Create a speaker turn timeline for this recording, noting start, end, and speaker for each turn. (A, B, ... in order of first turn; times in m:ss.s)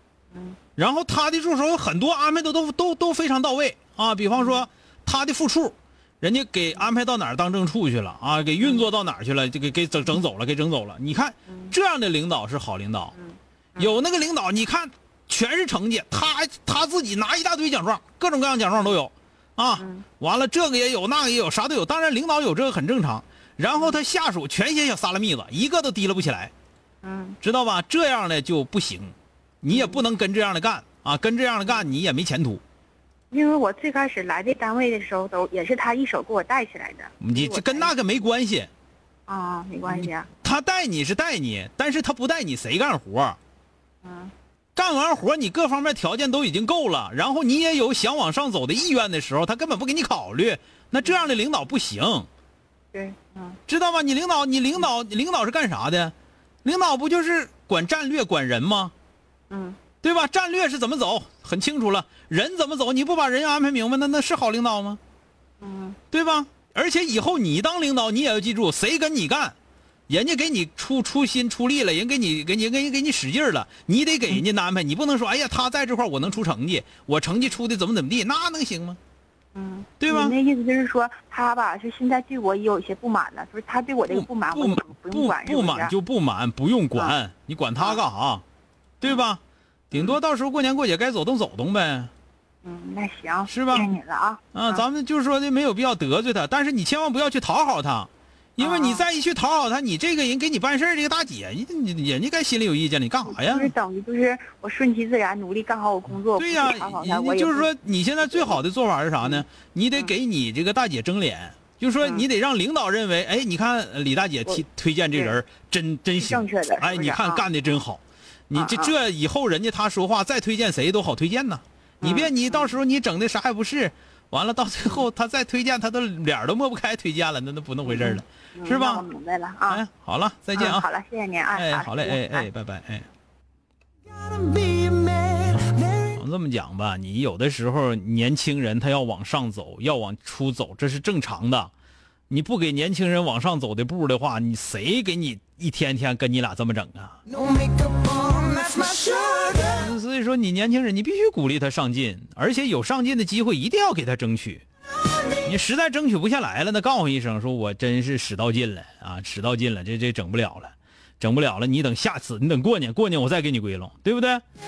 0:00.3-0:00.6 A
0:00.8-0:13.1 B
0:04.4-0:04.6 A
0:08.6-0:08.8 A
0:11.5-0:11.7 A
0:13.1-0:14.0 A
0:13.8-0:26.5 B
0:19.8-0:20.0 A
0:27.0-0:27.4 A
0:27.4-0:32.6 B
0:29.7-0:30.0 A
0:33.3-0:38.2 A
0:37.2-0:38.7 B
0:39.3-0:40.3 A
0:39.9-0:43.4 B
0:44.0-0:44.3 A
0:44.8-0:52.3 B
0:52.9-0:53.6 A
0:53.7-0:56.1 B
0:56.6-0:58.9 B
0:59.5-0:59.8 A
1:00.0-1:05.0 B
1:05.6-1:06.0 A
1:06.1-1:09.5 B
1:10.1-1:19.0 B
1:19.5-1:26.0 A
1:20.0-1:20.4 B
1:24.1-1:28.4 B
1:29.0-1:29.4 B
1:29.9-1:32.1 B
1:32.6-1:34.8 A
1:33.5-1:33.9 B
1:34.5-1:43.7 B
1:38.6-1:39.0 A
1:43.2-1:48.6 A
1:46.4-2:09.0 B
1:49.2-1:50.1 A
1:52.0-1:52.2 A
1:56.2-1:57.5 A
1:58.5-1:59.0 A
2:02.0-2:02.8 A
2:07.8-2:09.8 A
2:09.7-2:10.8 B
2:10.5-2:12.5 A
2:11.5-2:13.1 B
2:16.1-2:21.7 B
2:22.3-2:27.2 B
2:27.6-2:29.6 C
2:29.7-2:34.6 B
2:35.4-2:44.4 B